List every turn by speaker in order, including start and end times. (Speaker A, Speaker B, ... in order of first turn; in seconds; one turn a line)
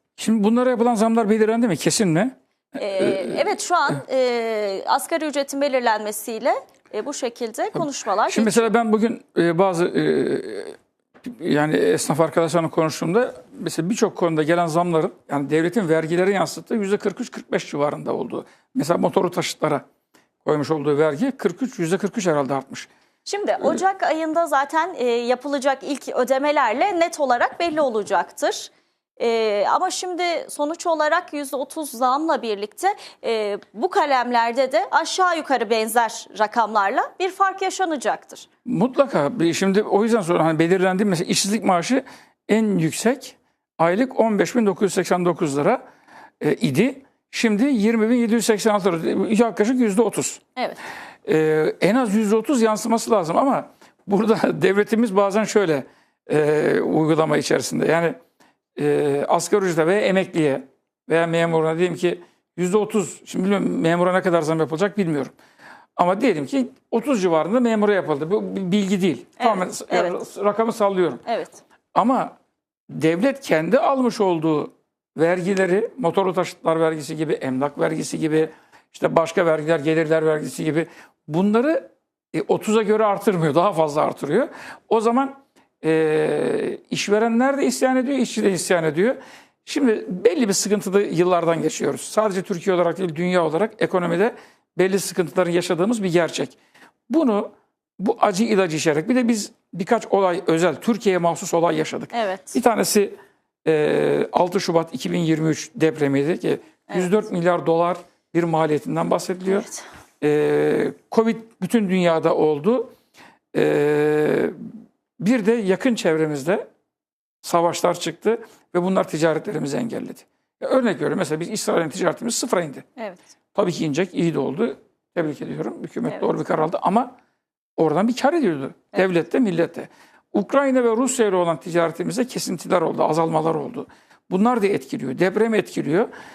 Speaker A: 0.2-3.4
Speaker B: 2.8-8.7
Speaker A: 7.7-19.8
Speaker A: 20.4-22.9
Speaker B: 23.2-38.5
Speaker A: 38.6-45.8
Speaker A: 46.4-50.4
Speaker A: 51.2-58.2
Speaker A: 58.8-65.3
Speaker A: 66.0-71.2
Speaker B: 69.4-70.1
Speaker B: 71.2-71.6
Speaker A: 71.9-72.3
Speaker A: 72.9-96.5
Speaker A: 97.1-109.7
Speaker B: 102.1-102.6
Speaker B: 106.9-107.2
Speaker B: 109.5-109.8
Speaker A: 110.2-112.9
Speaker A: 113.5-114.6
Speaker A: 115.2-116.6
Speaker A: 117.4-122.9
Speaker B: 123.0-123.2
Speaker A: 123.5-127.1
Speaker A: 127.8-136.1